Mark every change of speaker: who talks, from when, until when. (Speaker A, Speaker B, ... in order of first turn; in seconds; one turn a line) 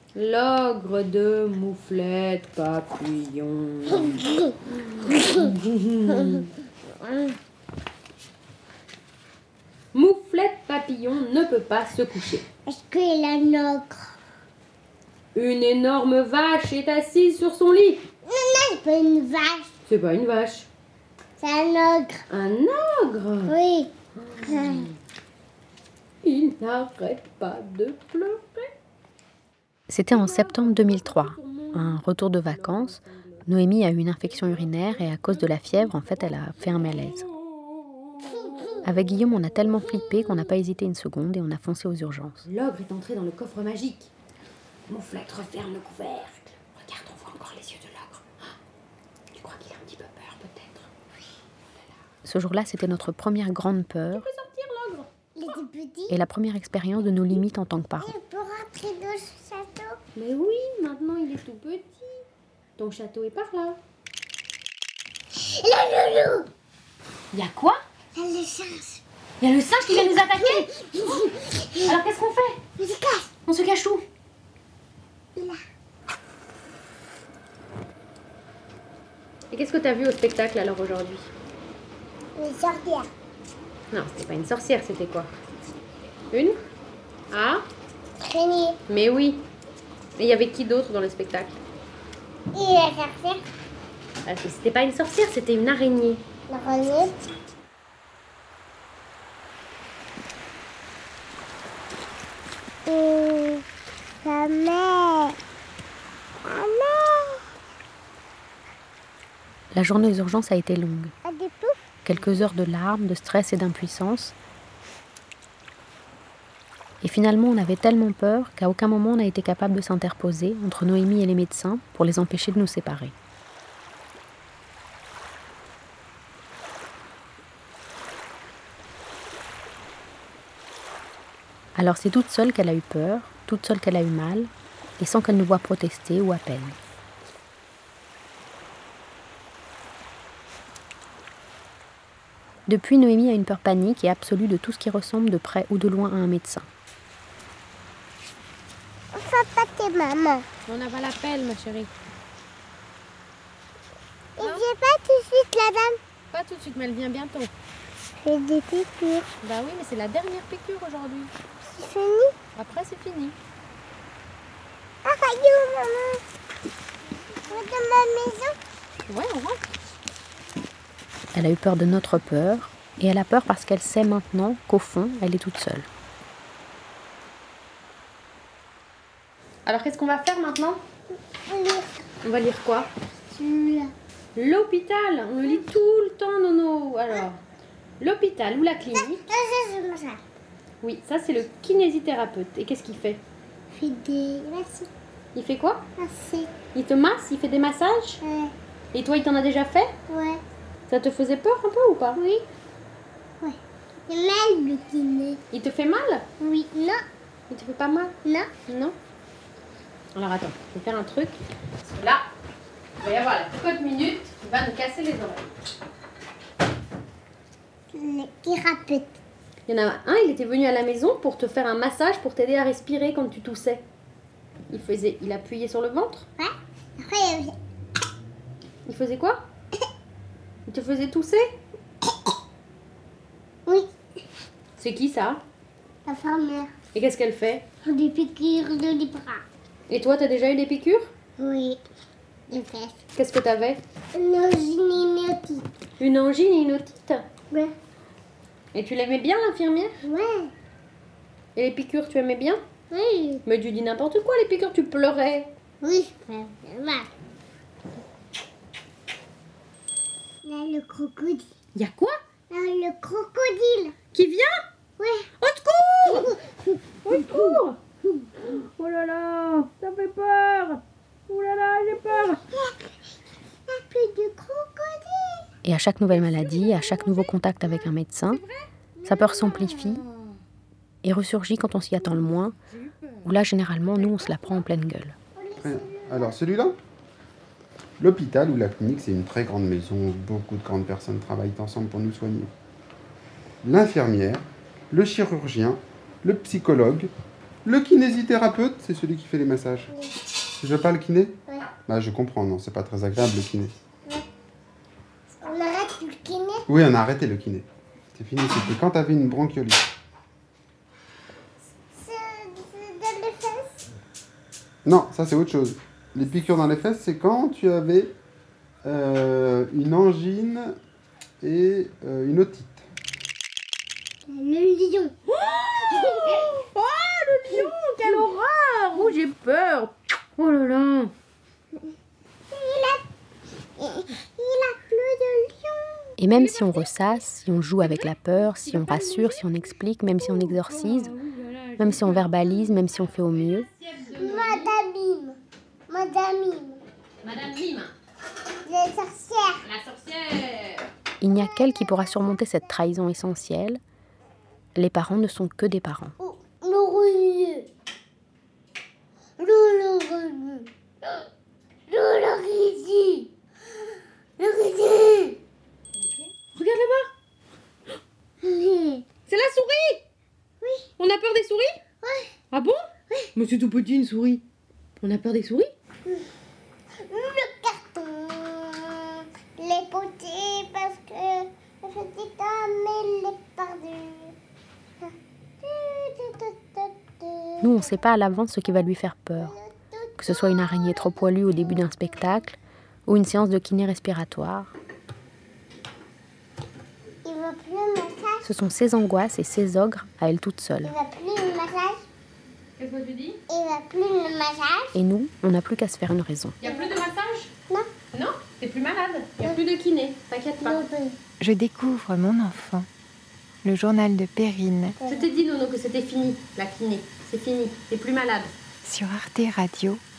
Speaker A: 0.1-6.5
Speaker B: 6.1-6.4
Speaker A: 9.9-12.4
Speaker B: 12.7-14.1
Speaker A: 15.3-18.1
Speaker B: 18.2-19.7
Speaker A: 19.9-20.7
Speaker B: 21.4-22.2
Speaker A: 22.3-23.5
Speaker B: 23.5-24.9
Speaker A: 24.2-25.0
Speaker A: 26.2-28.7
Speaker C: 29.9-37.3
Speaker A: 30.1-33.5
Speaker A: 34.6-35.3
Speaker A: 36.8-38.7
Speaker C: 38.8-42.4
Speaker A: 42.4-44.1
Speaker A: 44.9-48.5
Speaker A: 49.3-50.9
Speaker C: 52.2-54.2
Speaker A: 54.1-55.1
Speaker B: 55.4-56.2
Speaker C: 56.1-58.1
Speaker B: 58.0-60.0
Speaker A: 60.1-62.2
Speaker A: 62.8-63.8
Speaker B: 65.3-66.5
Speaker A: 67.3-67.8
Speaker B: 68.2-69.0
Speaker A: 69.4-71.2
Speaker B: 69.9-71.9
Speaker A: 71.8-72.6
Speaker B: 72.8-73.3
Speaker A: 73.5-74.0
Speaker A: 79.5-81.3
Speaker B: 82.3-83.1
Speaker A: 83.9-85.3
Speaker A: 86.3-86.6
Speaker A: 87.3-87.7
Speaker B: 88.2-88.8
Speaker A: 88.9-89.5
Speaker A: 90.2-91.6
Speaker B: 92.5-93.4
Speaker A: 94.2-96.2
Speaker B: 96.5-97.2
Speaker B: 102.8-103.6
Speaker B: 104.2-105.4
Speaker B: 106.4-107.5
Speaker C: 109.7-111.1
Speaker B: 111.2-111.8
Speaker C: 112.0-114.3
Speaker C: 117.0-123.1
Speaker C: 131.8-136.8
Speaker C: 142.7-146.7
Speaker B: 149.1-150.4
Speaker A: 150.7-151.9
Speaker B: 154.4-156.0
Speaker A: 154.4-154.7
Speaker A: 156.3-157.5
Speaker B: 158.2-159.3
Speaker A: 159.4-161.3
Speaker B: 161.7-162.3
Speaker A: 162.6-163.3
Speaker B: 165.0-166.2
Speaker B: 167.5-168.6
Speaker A: 169.1-169.7
Speaker C: 171.3-175.9
Speaker A: 179.7-180.8
Speaker B: 181.4-182.0
Speaker A: 182.2-182.9
Speaker B: 183.3-183.9
Speaker A: 184.3-187.4
Speaker A: 188.0-189.2
Speaker B: 189.0-190.2
Speaker A: 190.8-193.2
Speaker B: 193.7-194.9
Speaker A: 195.3-195.8
Speaker B: 196.0-196.5
Speaker A: 196.7-198.2
Speaker B: 198.2-198.5
Speaker A: 198.9-199.9
Speaker B: 200.1-200.4
Speaker A: 200.9-202.2
Speaker B: 202.2-202.4
Speaker B: 203.4-205.4
Speaker A: 205.5-206.3
Speaker B: 206.4-207.0
Speaker A: 207.5-208.1
Speaker B: 208.2-208.5
Speaker A: 208.7-208.9
Speaker A: 210.1-212.3
Speaker A: 213.0-215.5
Speaker B: 217.9-219.2
Speaker A: 219.7-223.8
Speaker A: 224.7-226.3
Speaker B: 226.4-227.5
Speaker A: 228.8-229.4
Speaker A: 230.7-231.4
Speaker A: 234.8-235.4
Speaker B: 236.1-236.7
Speaker A: 236.9-237.6
Speaker B: 237.8-239.4
Speaker A: 239.9-241.1
Speaker B: 241.4-241.8
Speaker B: 242.5-242.9
Speaker A: 243.1-243.8
Speaker B: 244.1-245.7
Speaker A: 246.0-247.2
Speaker A: 248.7-249.9
Speaker B: 250.0-250.5
Speaker A: 251.6-252.6
Speaker B: 252.9-253.4
Speaker A: 253.4-255.5
Speaker B: 255.8-257.1
Speaker B: 260.4-261.4
Speaker A: 261.7-262.2
Speaker B: 262.5-263.9
Speaker A: 264.1-264.5
Speaker B: 265.0-265.3
Speaker A: 265.4-266.4
Speaker B: 266.1-267.6
Speaker A: 267.0-267.8
Speaker A: 268.4-272.4
Speaker B: 271.9-272.9
Speaker B: 273.7-275.5
Speaker C: 275.6-278.4
Speaker A: 276.1-277.4
Speaker A: 278.3-278.6
Speaker B: 279.0-279.8
Speaker C: 279.1-280.0
Speaker C: 281.0-282.5
Speaker A: 282.7-283.3
Speaker C: 283.2-285.1
Speaker A: 283.9-284.6
Speaker B: 285.4-286.3
Speaker D: 285.6-286.8
Speaker D: 288.0-292.5
Speaker D: 293.6-297.1
Speaker D: 297.6-299.9
Speaker D: 300.6-303.7
Speaker B: 301.5-301.7
Speaker B: 305.3-306.6
Speaker D: 306.7-309.9
Speaker B: 311.9-313.8
Speaker D: 314.8-318.1
Speaker D: 318.8-320.8
Speaker D: 321.4-322.9
Speaker B: 324.3-325.1
Speaker A: 325.3-331.1
Speaker B: 326.1-326.5
Speaker B: 332.5-333.0
Speaker B: 333.8-336.1
Speaker C: 336.2-341.1
Speaker A: 336.3-336.9
Speaker A: 337.8-339.4
Speaker A: 340.2-344.7
Speaker C: 341.8-343.7
Speaker B: 344.1-346.8
Speaker A: 347.2-347.9
Speaker B: 348.6-349.6
Speaker A: 349.6-350.9
Speaker C: 351.2-353.8
Speaker B: 351.3-352.4
Speaker C: 354.8-356.1
Speaker B: 356.2-357.7
Speaker B: 359.4-361.2
Speaker B: 361.9-363.3
Speaker B: 364.4-365.4
Speaker A: 365.9-367.1
Speaker B: 368.4-369.1
Speaker A: 369.3-370.0
Speaker B: 370.6-370.9
Speaker A: 371.0-371.7
Speaker B: 372.0-372.3
Speaker A: 372.5-374.4
Speaker A: 375.0-375.7
Speaker B: 377.0-384.3
Speaker B: 385.0-388.0
Speaker C: 387.6-389.5
Speaker B: 389.4-391.5
Speaker C: 390.2-394.7
Speaker B: 397.2-398.4
Speaker C: 398.4-400.9
Speaker B: 400.8-402.0
Speaker A: 402.8-403.4
Speaker B: 403.5-404.9
Speaker C: 404.9-406.6
Speaker A: 406.6-407.5
Speaker A: 408.1-410.8
Speaker B: 410.6-411.2
Speaker E: 411.4-412.9
Speaker E: 413.6-414.9
Speaker B: 415.0-415.3
Speaker A: 415.0-418.5
Speaker E: 418.8-420.0